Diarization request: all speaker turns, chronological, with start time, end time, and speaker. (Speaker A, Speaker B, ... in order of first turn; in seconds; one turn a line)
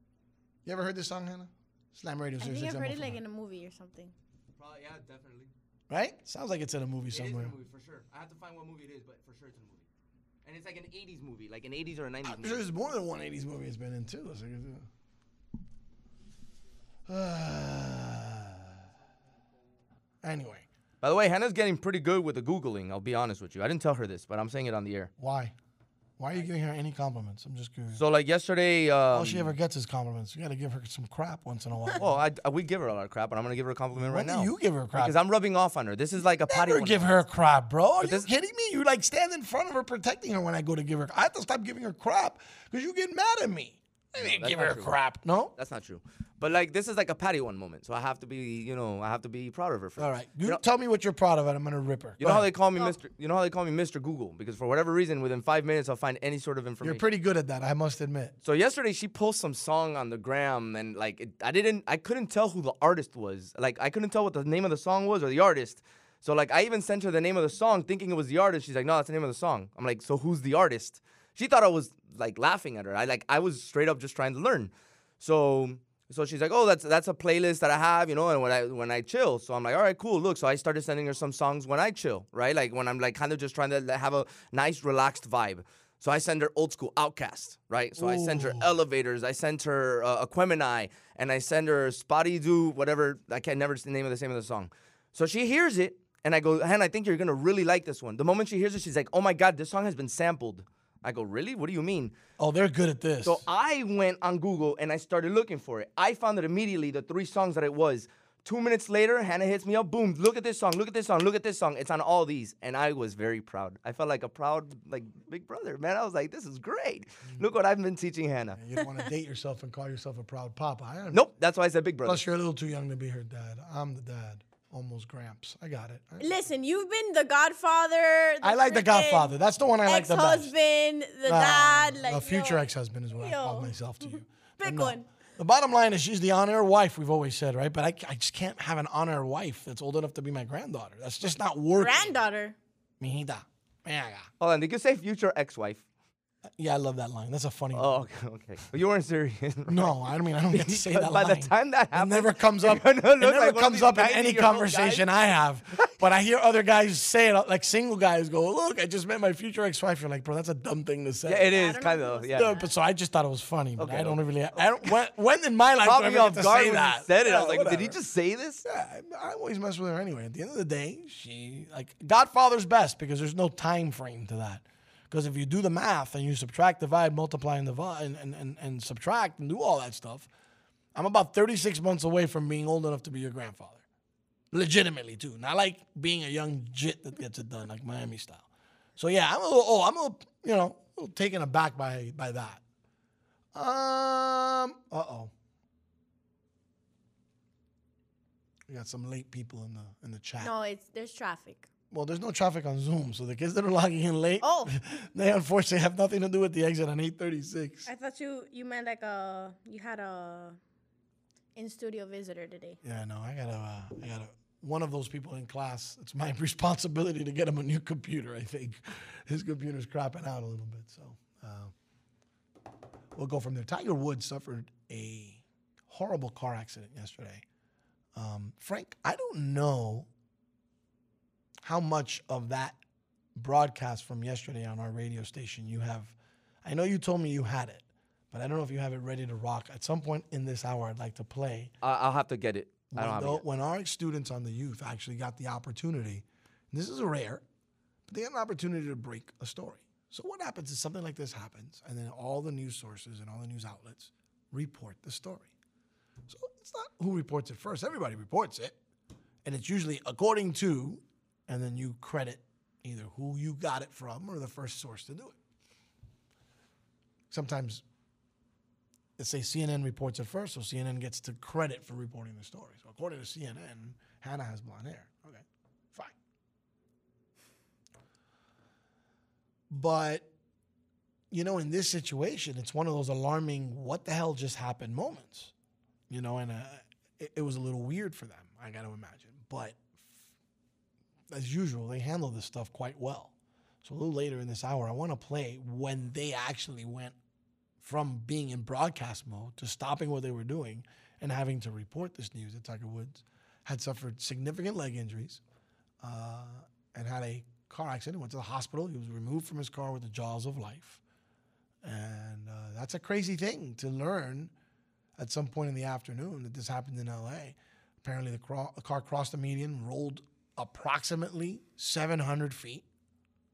Speaker A: 0.6-3.2
Speaker B: 2.4-4.1
Speaker C: 4.6-5.5
Speaker A: 5.9-7.5
Speaker C: 7.1-9.8
Speaker C: 10.4-12.6
Speaker A: 12.2-14.9
Speaker A: 17.1-18.7
Speaker A: 20.2-20.6
Speaker C: 21.0-25.1
Speaker A: 25.2-25.5
Speaker A: 26.2-28.0
Speaker C: 27.9-29.5
Speaker A: 29.1-32.1
Speaker C: 32.0-37.2
Speaker A: 34.0-35.1
Speaker A: 36.5-45.5
Speaker C: 38.0-38.3
Speaker C: 44.2-44.9
Speaker C: 45.6-50.6
Speaker A: 50.0-52.5
Speaker C: 52.2-57.0
Speaker A: 56.8-58.3
Speaker C: 58.4-102.2
Speaker A: 88.0-88.7
Speaker A: 102.4-103.4
Speaker C: 103.2-118.6
Speaker A: 118.6-121.3
Speaker C: 121.1-122.2
Speaker A: 122.0-126.3
Speaker B: 126.2-129.3
Speaker A: 128.4-130.5
Speaker B: 129.8-132.6
Speaker A: 131.2-142.2
Speaker B: 133.2-135.1
Speaker B: 141.8-142.6
Speaker A: 143.0-144.3
Speaker C: 144.4-145.8
Speaker A: 146.6-148.0
Speaker C: 147.7-149.9
Speaker A: 149.7-161.5
Speaker C: 150.5-155.0
Speaker C: 161.2-162.6
Speaker B: 161.4-162.7
Speaker A: 162.3-168.0
Speaker C: 163.8-164.9
Speaker C: 165.8-168.6
Speaker A: 168.6-180.3
Speaker A: 180.9-183.8
Speaker A: 184.5-188.4
Speaker A: 189.0-192.6
Speaker A: 193.5-195.3
Speaker A: 198.7-200.5
Speaker B: 200.4-201.7
Speaker A: 201.9-207.9
Speaker B: 204.4-204.8
Speaker B: 207.8-210.6
Speaker B: 211.6-212.8
Speaker A: 212.8-221.7
Speaker A: 223.1-227.4
Speaker A: 228.1-230.1
Speaker A: 231.6-232.8
Speaker A: 233.3-241.7
Speaker C: 241.8-243.4
Speaker A: 242.9-247.4
Speaker A: 248.1-255.5
Speaker A: 256.3-258.8
Speaker A: 259.4-265.4
Speaker A: 267.3-267.8
Speaker A: 269.2-276.1
Speaker A: 279.7-280.3
Speaker A: 281.3-285.5
Speaker A: 286.1-290.3
Speaker A: 291.3-297.1
Speaker A: 297.8-305.4
Speaker A: 306.0-311.0
Speaker A: 311.8-314.5
Speaker A: 315.2-322.8